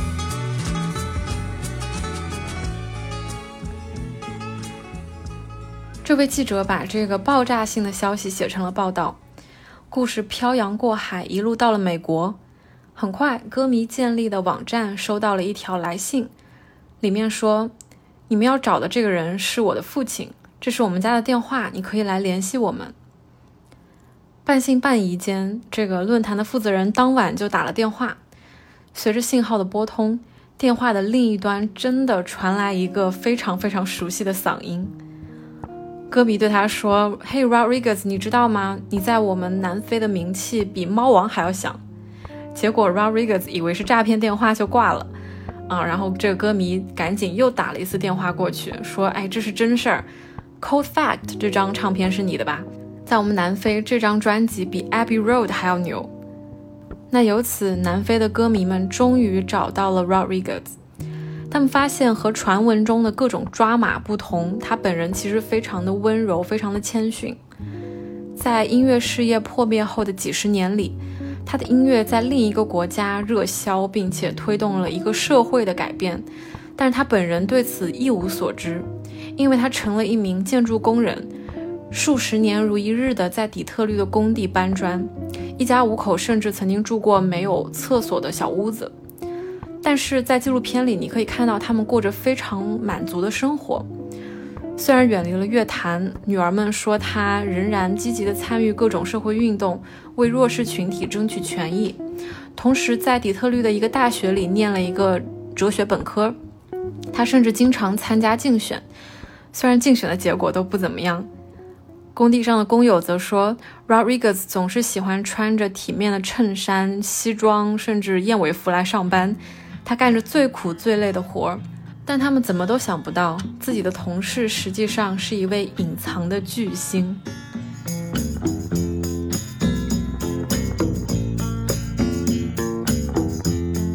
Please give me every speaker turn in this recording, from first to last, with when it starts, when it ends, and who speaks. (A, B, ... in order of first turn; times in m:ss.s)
0:06.0-0:09.2 A
0:09.9-0:12.4 A
0:13.0-0:16.3 A
0:17.0-0:17.7 A
0:18.3-0:22.9 A
0:24.4-0:28.2 A
0:28.9-0:34.9 A
0:36.1-0:41.8 A
0:42.5-0:45.1 A
0:45.7-0:50.0 A
0:50.6-0:56.1 A
0:57.1-1:00.7 A
1:01.5-1:07.4 A
1:08.4-1:16.2 A
1:16.8-1:21.3 A
1:21.9-1:28.9 A
1:29.8-1:33.8 A
1:34.8-1:42.0 A
1:42.6-1:46.4 A
1:47.1-1:48.8 A
1:49.5-1:51.3 A
1:52.1-2:07.2 A